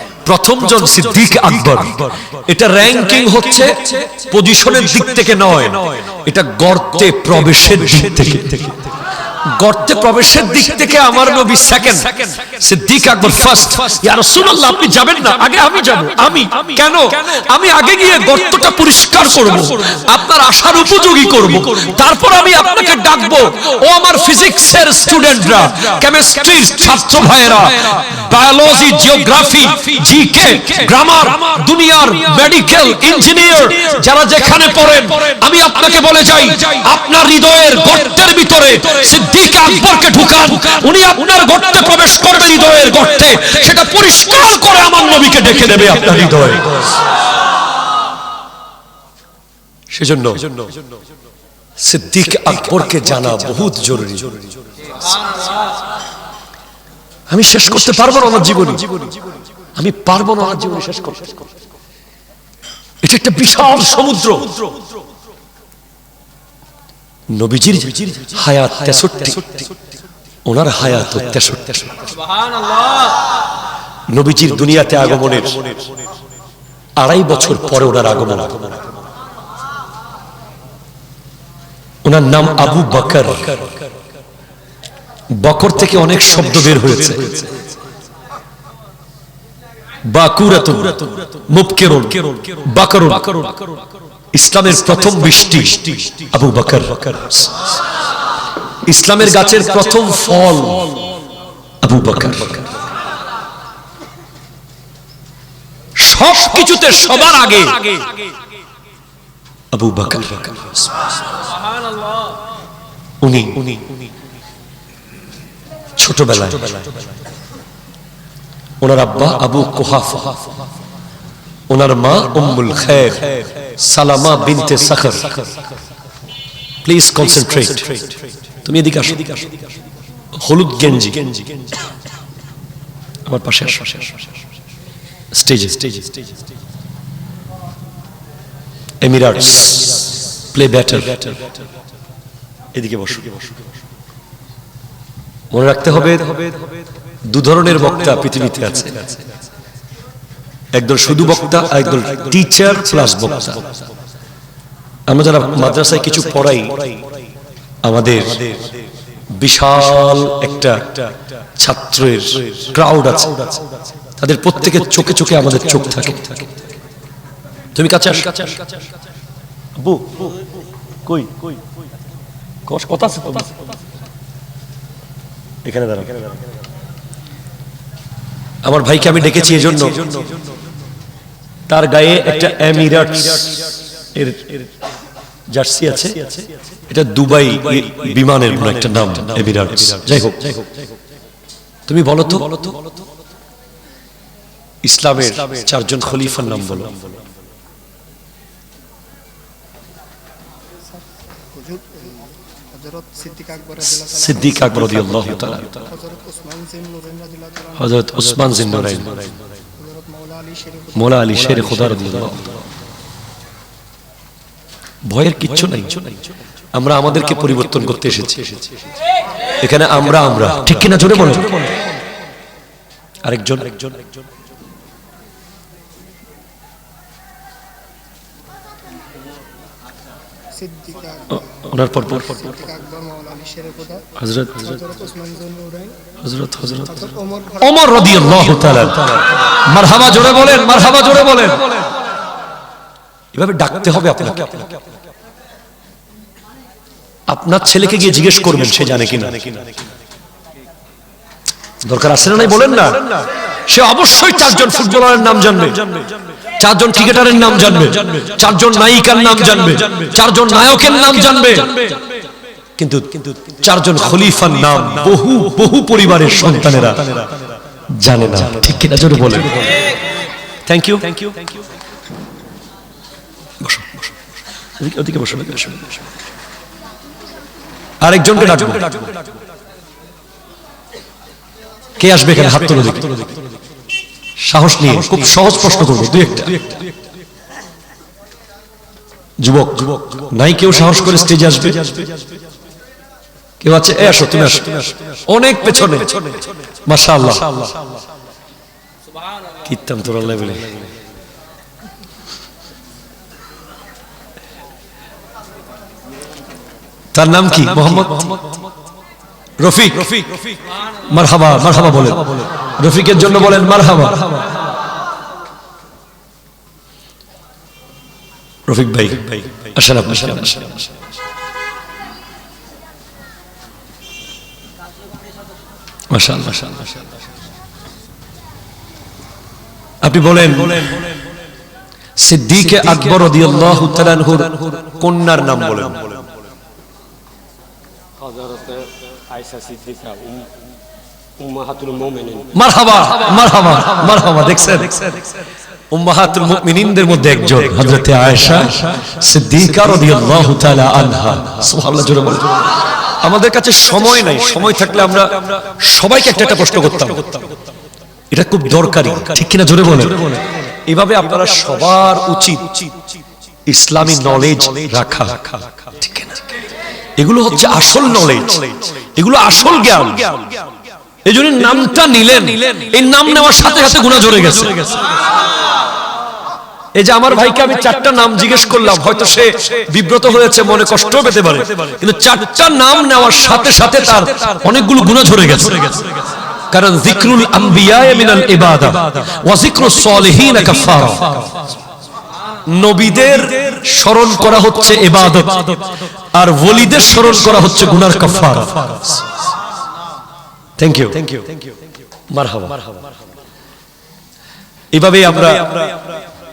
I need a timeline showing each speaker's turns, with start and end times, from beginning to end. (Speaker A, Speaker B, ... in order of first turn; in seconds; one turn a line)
Speaker A: 0.2-46.9
Speaker A: 49.9-50.6
Speaker A: 51.8-54.5
Speaker A: 57.3-59.1
Speaker A: 59.8-61.5
Speaker A: 63.0-64.7
Speaker A: 67.3-69.7
Speaker A: 70.5-72.1
Speaker A: 74.1-75.8
Speaker A: 77.0-78.8
Speaker A: 82.0-83.7
Speaker A: 85.3-87.6
Speaker A: 90.0-93.5
Speaker A: 94.3-97.5
Speaker A: 98.9-101.0
Speaker A: 101.8-102.8
Speaker A: 106.0-108.0
Speaker A: 109.7-111.1
Speaker A: 113.2-113.8
Speaker A: 116.0-116.9
Speaker A: 118.8-120.4
Speaker A: 121.7-125.5
Speaker A: 126.8-129.5
Speaker A: 130.3-131.5
Speaker A: 133.3-134.2
Speaker A: 135.3-136.2
Speaker A: 139.0-141.5
Speaker A: 142.7-143.5
Speaker A: 145.5-146.6
Speaker A: 147.2-149.2
Speaker A: 150.7-153.8
Speaker A: 155.1-157.0
Speaker A: 157.8-158.7
Speaker A: 159.3-163.6
Speaker A: 164.2-166.5
Speaker A: 167.8-168.6
Speaker A: 169.8-170.4
Speaker A: 171.1-171.6
Speaker A: 172.7-173.6
Speaker A: 175.7-176.3
Speaker A: 178.6-180.4
Speaker A: 181.7-184.7
Speaker A: 185.5-190.7
Speaker A: 191.9-192.8
Speaker A: 194.8-197.1
Speaker B: 201.6-203.8
Speaker C: 203.0-203.8
Speaker A: 203.8-205.9
Speaker B: 206.0-207.6
Speaker C: 206.2-207.7
Speaker A: 207.8-209.3
Speaker B: 210.0-210.8
Speaker C: 210.6-210.9
Speaker A: 210.9-212.6
Speaker A: 215.1-216.2
Speaker A: 216.7-218.7
Speaker A: 219.6-221.7
Speaker A: 223.2-224.0
Speaker C: 230.6-231.3
Speaker A: 231.3-232.6
Speaker C: 232.8-234.1
Speaker B: 232.9-234.0
Speaker A: 234.2-234.8
Speaker C: 234.8-236.0
Speaker B: 235.2-235.6
Speaker A: 236.2-241.9
Speaker C: 237.1-237.6
Speaker A: 243.3-244.7
Speaker A: 247.3-249.7
Speaker A: 251.8-262.0
Speaker A: 262.8-267.3
Speaker A: 268.0-269.7
Speaker A: 270.7-271.4
Speaker A: 273.6-274.1
Speaker A: 274.8-276.0
Speaker A: 278.0-279.1
Speaker A: 282.0-283.3
Speaker A: 284.4-286.8
Speaker A: 289.4-292.1
Speaker A: 293.6-297.7
Speaker A: 299.6-300.9
Speaker A: 307.1-308.5
Speaker A: 309.6-310.5
Speaker A: 311.1-314.4
Speaker A: 318.7-320.9
Speaker A: 326.1-327.0
Speaker A: 330.0-331.1
Speaker A: 332.2-336.2
Speaker B: 338.2-340.7
Speaker B: 341.4-342.5
Speaker A: 342.5-345.3
Speaker A: 345.9-357.5
Speaker A: 358.3-362.8
Speaker A: 363.7-366.5
Speaker A: 367.2-370.5
Speaker A: 371.3-375.1
Speaker A: 377.0-386.1
Speaker A: 386.7-391.5
Speaker A: 392.7-399.2
Speaker A: 400.8-401.5
Speaker A: 402.3-402.9
Speaker A: 404.9-406.1